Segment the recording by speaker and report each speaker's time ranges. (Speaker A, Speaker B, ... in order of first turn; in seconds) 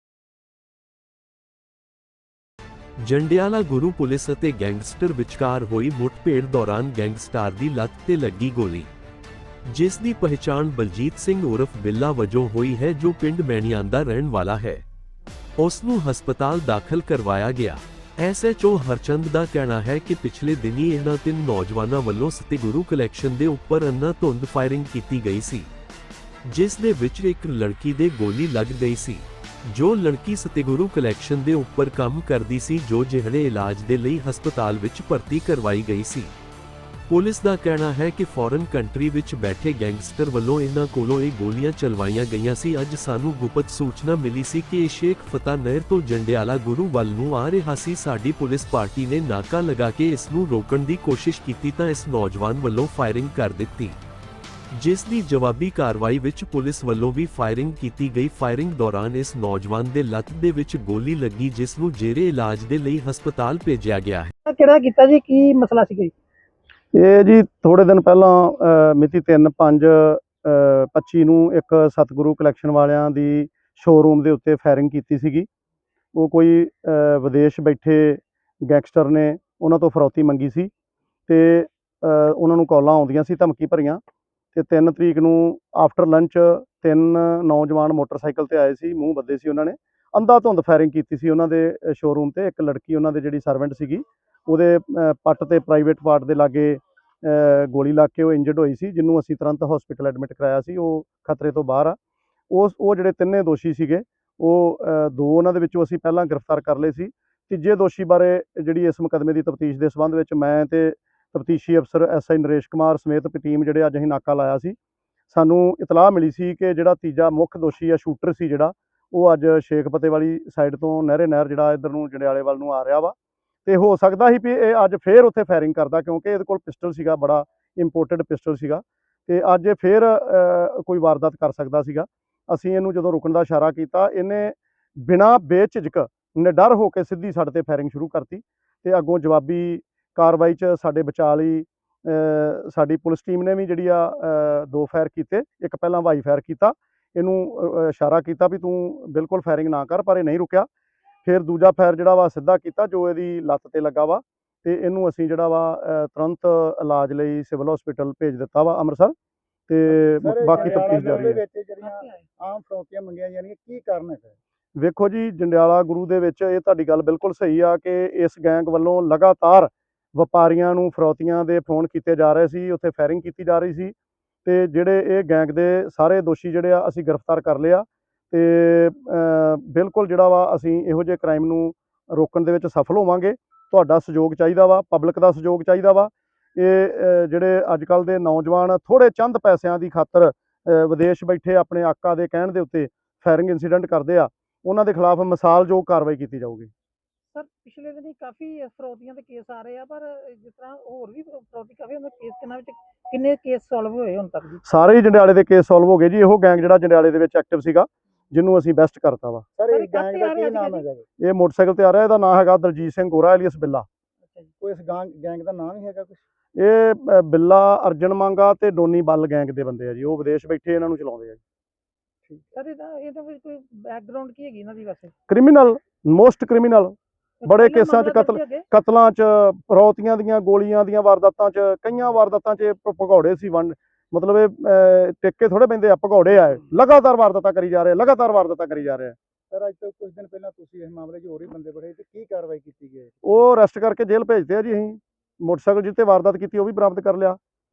Speaker A: 3.0-8.9, 9.7-14.8, 15.6-25.7, 26.4-36.3, 37.1-54.0, 54.7-64.3
Speaker B: 64.4-66.1, 161.8-162.2, 197.3-204.6, 209.7-210.8, 222.5-225.1, 227.4-228.6
Speaker C: 66.9-75.5, 76.2-80.7, 81.3-84.0, 84.5-102.0, 102.5-114.8, 115.3-123.1, 123.7-150.7, 151.2-159.1, 159.7-161.4, 164.8-173.9, 174.4-196.7, 204.6-209.4, 211.2-213.8, 216.6-221.4, 225.3-226.9, 227.5-239.1, 243.2-247.4
Speaker D: 159.9-164.4, 209.6-211.0, 214.6-216.2, 239.5-243.4